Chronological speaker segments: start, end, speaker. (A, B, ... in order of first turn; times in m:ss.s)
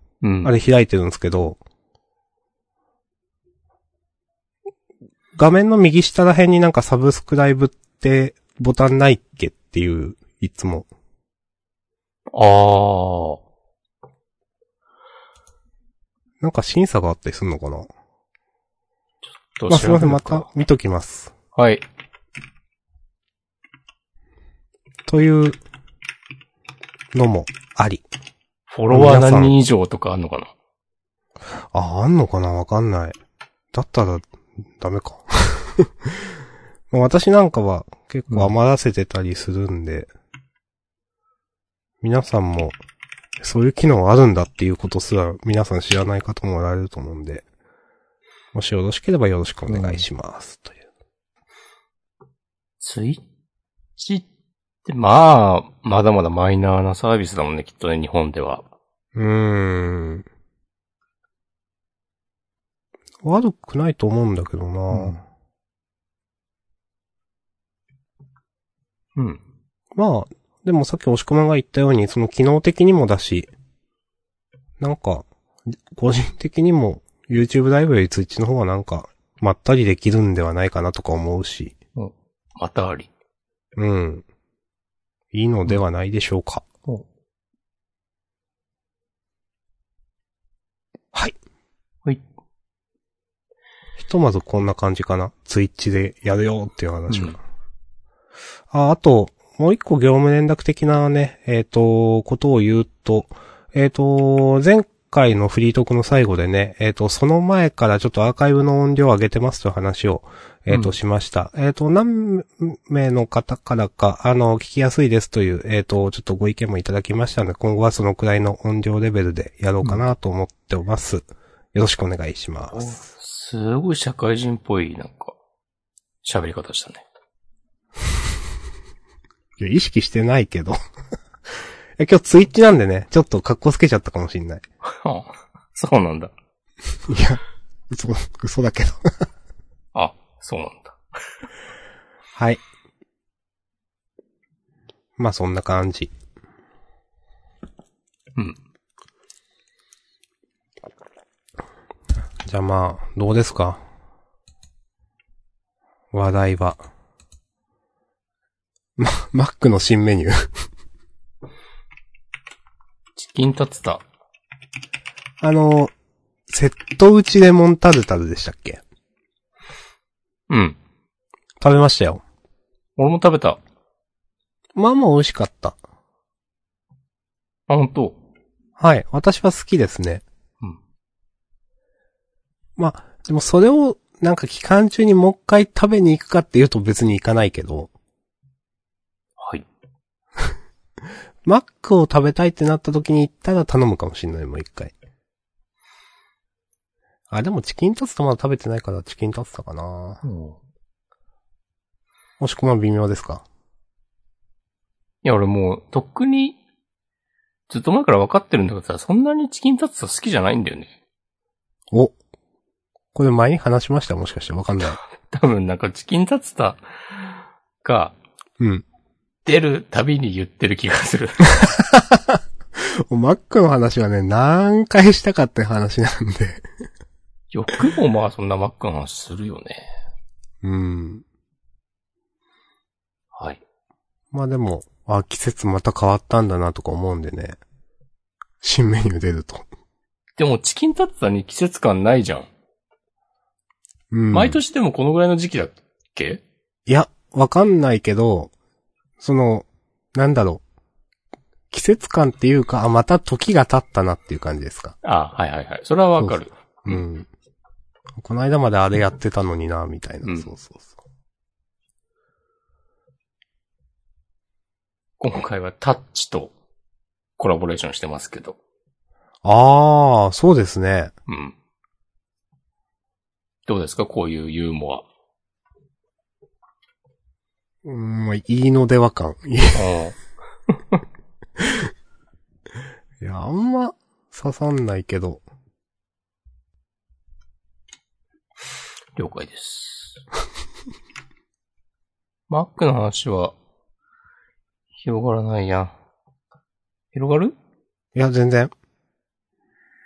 0:00.2-0:00.5 A
0:00.4-0:01.6 B
0:05.4-0:10.9 B
0:12.3-0:13.4 A
0:16.4-0:17.9 B
0:19.4-0:20.5 A
0:19.7-0:21.3 B
0:21.6-0:21.8 A
0:25.1-0:25.6 B
0:27.1-0:28.0 B
0:28.7-0:30.5 A
0:28.9-0:29.6 B
0:31.7-0:33.2 B
0:33.7-0:36.3 B
0:36.9-0:40.1 B
0:42.0-0:42.8 B
0:43.4-0:47.4 B
0:48.5-0:50.8 B
0:49.7-0:50.0 A
0:52.8-0:53.2 A
0:54.0-0:54.3 A
0:54.8-0:58.6 A
0:59.2-1:00.2 B
1:03.2-1:05.2 B
1:04.9-1:05.2 A
1:10.0-1:13.5 B
1:14.8-1:21.8 B
1:22.0-1:23.1 A
1:23.8-1:24.2 B
1:25.3-1:26.6 B
1:34.0-1:37.4 B
1:37.1-1:37.4 A
1:38.7-2:03.0 B
1:50.7-1:50.9 A
1:59.8-2:00.1 A
2:02.7-2:05.4 A
2:06.2-2:07.0 A
2:09.6-2:10.8 B
2:12.0-2:14.6 B
2:14.8-2:16.3 A
2:17.1-2:19.3 B
2:20.0-2:21.0 A
2:22.4-2:22.6 B
2:25.2-2:26.1 B
2:32.5-2:33.8 B
2:36.1-2:36.8 B
2:39.0-2:40.5 B
2:43.2-2:44.0 A
2:45.4-2:45.9 B
2:46.5-2:48.8 B
2:50.5-2:50.8 A
2:51.6-2:52.2 B
2:53.0-2:53.6 A
2:54.8-2:55.8 B
2:57.7-2:58.2 A
2:58.8-3:00.2 B
3:02.8-3:07.9 B
3:09.4-3:09.7 A
3:11.4-3:14.9 B
3:17.3-3:20.2 B
3:20.2-3:20.6 A
3:22.4-3:23.4 B
3:25.2-3:26.6 A
3:27.7-3:30.9 A
3:33.1-3:35.0 B
3:35.0-3:38.2 A
3:38.6-3:38.8 B
3:39.4-3:41.6 A
3:41.6-3:46.6 B
3:47.5-3:49.9 A
3:50.6-3:51.2 B
3:53.3-3:53.6 A
3:54.3-3:57.6 B
3:58.6-3:59.6 B
4:00.4-4:02.5 A
4:04.1-4:04.6 B
4:04.3-4:06.4 A
4:06.9-4:08.5 B
4:09.2-4:10.6 B
4:11.7-4:15.0 B
4:15.0-4:17.0 A
4:16.2-4:17.3 B
4:18.2-4:20.9 B
4:20.2-4:20.5 A
4:25.2-4:26.5 A
4:27.4-4:28.6 A
4:29.4-4:31.1 B
4:31.3-4:31.6 A
4:33.7-4:35.0 A
4:37.8-4:39.8 B
4:39.8-4:40.2 A
4:40.7-4:41.0 A
4:41.6-4:41.9 B
4:43.2-4:45.4 B
4:49.2-4:50.2 A
4:52.5-4:53.6 A
4:55.0-4:55.9 A
4:57.1-4:57.6 A
4:58.2-4:58.7 B